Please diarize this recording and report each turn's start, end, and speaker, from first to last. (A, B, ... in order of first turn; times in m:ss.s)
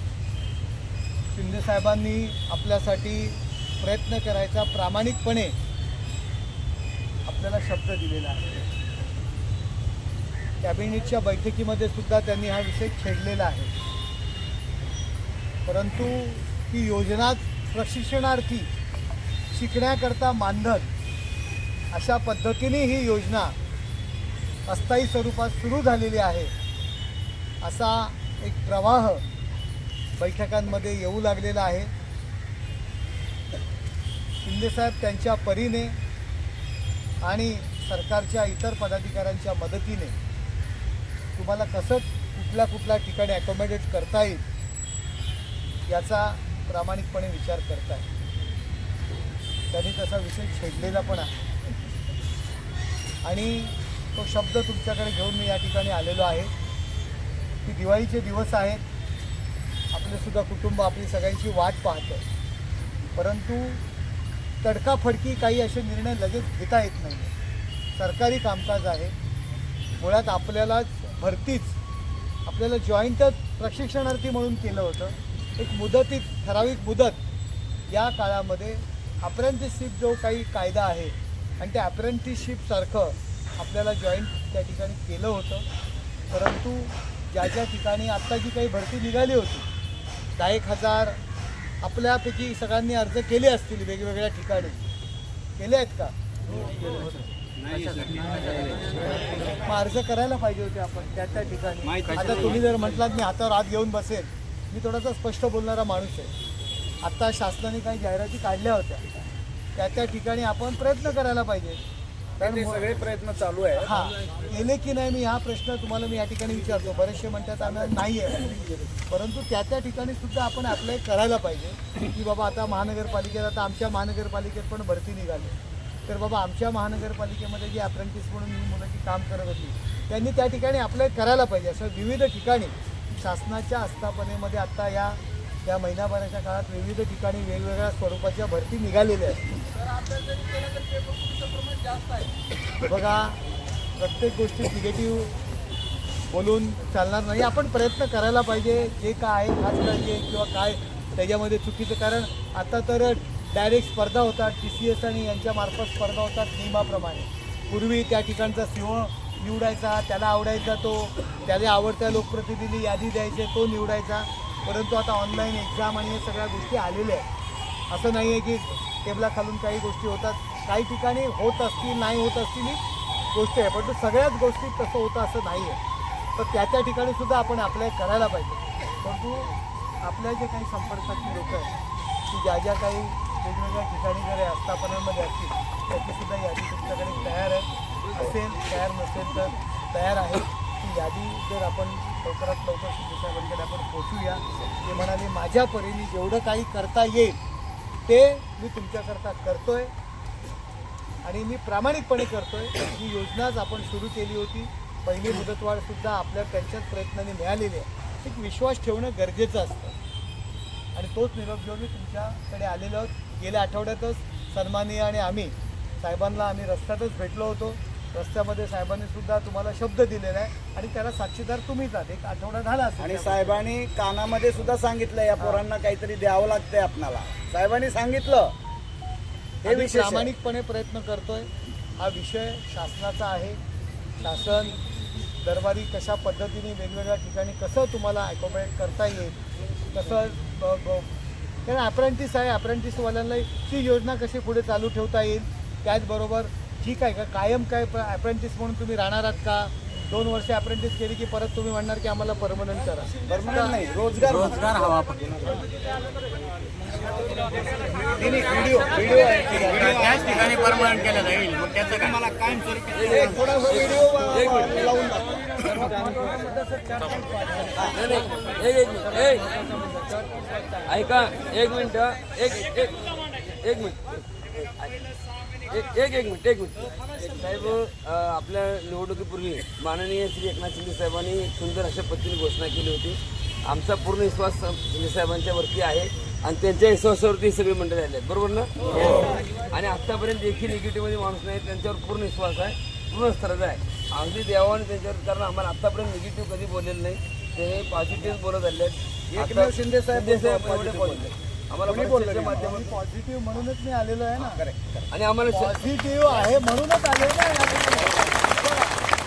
0:01.3-0:05.5 A
0:07.3-0:08.7 A
0:10.6-0:13.7 A
0:15.6-0:18.7 A
0:19.5-0:20.9 A
0:21.9-0:23.6 A
0:24.7-0:26.5 A
0:27.6-0:29.2 A
0:30.2-0:31.9 A
0:34.4-0:36.0 A
0:37.2-0:40.2 A
0:41.4-0:44.4 A
0:45.9-0:48.0 A
0:49.7-0:51.3 A
0:53.2-0:56.5 A
0:57.6-0:58.8 A
0:59.9-1:02.2 A
1:03.2-1:03.8 A
1:04.6-1:07.3 A
1:08.0-1:09.1 A
1:10.0-1:11.8 A
1:12.5-1:17.2 A
1:17.9-1:25.6 A
1:26.3-1:29.6 A
1:30.4-1:31.2 A
1:31.8-1:34.8 A
1:35.6-1:36.1 A
1:38.2-1:38.5 B
1:39.5-1:46.3 A
1:47.0-1:49.0 A
1:49.8-1:51.8 A
1:52.4-1:52.9 A
1:52.4-1:53.9 C
1:53.8-1:58.5 A
1:59.1-2:05.5 A
2:06.1-2:19.4 A
2:20.1-2:22.2 C
2:22.8-2:23.4 A
2:24.0-2:25.3 A
2:26.3-2:47.2 A
2:47.9-2:52.8 A
2:53.3-2:55.8 A
2:56.4-2:59.5 A
3:00.0-3:01.7 A
3:02.3-3:17.4 A
3:18.1-3:19.9 A
3:21.2-3:29.9 A
3:31.0-3:43.6 A
3:43.0-3:48.5 C
3:49.6-3:50.3 C
3:49.6-3:53.6 A
3:54.2-3:54.8 A
3:55.4-3:59.4 A
3:59.9-4:01.1 A
4:01.7-4:13.7 A
4:13.3-4:15.1 C
4:14.5-4:15.6 B
4:18.2-4:21.3 C
4:20.2-4:21.9 B
4:21.9-4:25.7 C
4:23.0-4:25.0 D
4:25.9-4:26.3 D
4:27.7-4:28.0 C
4:27.9-4:30.2 D
4:30.9-4:35.1 D
4:35.7-5:02.9 D
4:59.3-5:01.3 C
5:01.8-5:02.8 C
5:02.5-5:04.6 A
5:04.4-5:05.1 C
5:05.1-5:05.9 D
5:05.5-5:09.0 A